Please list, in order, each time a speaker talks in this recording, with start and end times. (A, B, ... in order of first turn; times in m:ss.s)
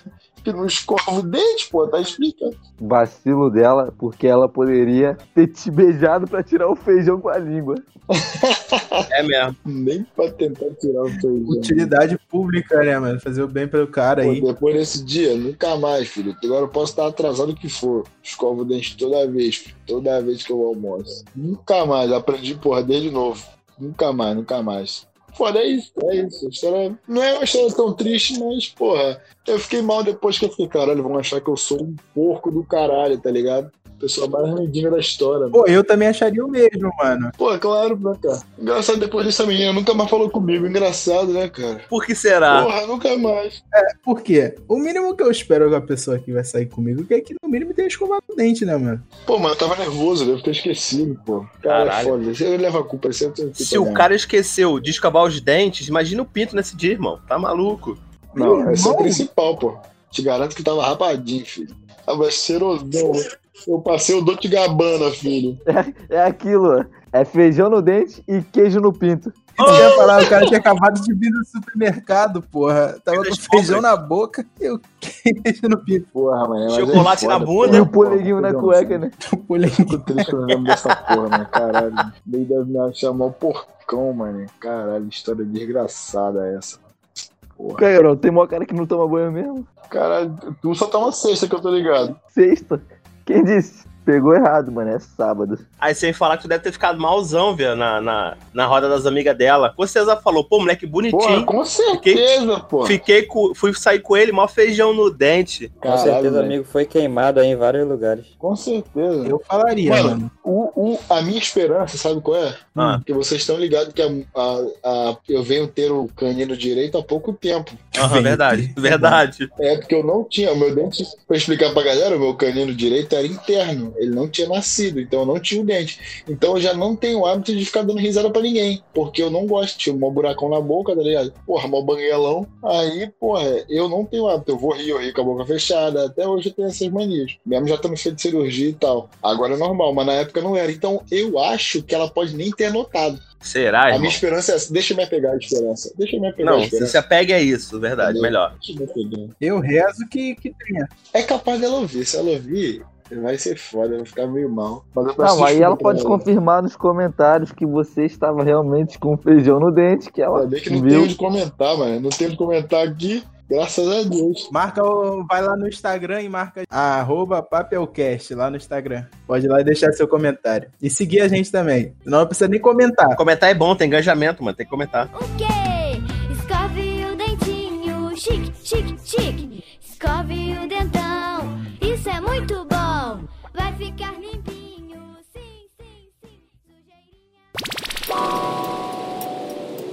0:00.4-0:02.5 A
0:02.8-0:07.8 B
0:08.1-0:09.0 A
0:09.1-0:09.6 C
0:09.7-0:11.9 A
0:11.5-0:14.5 D
0:14.2-0:35.6 A
0:35.5-0:37.3 D
0:37.4-0:41.9 A
0:41.9-0:42.7 C
0:42.5-0:43.6 A
0:43.8-0:49.0 D
0:49.3-0:54.1 A
0:51.7-0:52.2 C
0:53.6-0:58.0 C
0:58.3-1:05.6 A
0:58.4-0:59.3 D
1:05.7-1:09.6 B
1:09.6-1:10.4 C
1:09.6-1:16.1 D
1:13.1-1:14.0 C
1:16.1-1:19.1 A
1:16.7-1:17.9 C
1:17.6-1:19.1 B
1:19.3-1:20.3 D
1:19.8-1:26.8 A
1:27.6-1:27.9 A
1:27.8-1:29.7 B
1:29.9-1:32.2 A
1:32.3-1:35.6 B
1:35.8-1:42.2 C
1:41.1-1:43.0 A
1:42.8-1:45.8 C
1:45.8-1:46.6 A
1:45.9-1:48.3 E
1:48.4-1:57.9 A
1:49.2-1:50.3 D
1:52.8-1:53.0 C
1:52.8-1:53.0 D
1:58.0-1:59.5 C
1:58.0-1:59.2 D
1:59.6-2:23.2 A
2:23.4-2:24.2 C
2:23.9-2:27.0 A
2:26.4-2:28.5 C
2:28.0-2:29.4 A
2:29.4-2:30.9 D
2:31.1-2:36.3 A
2:35.2-2:41.1 B
2:40.3-2:44.5 A
2:44.5-2:53.2 D
2:53.2-2:55.1 C
2:55.1-3:07.5 F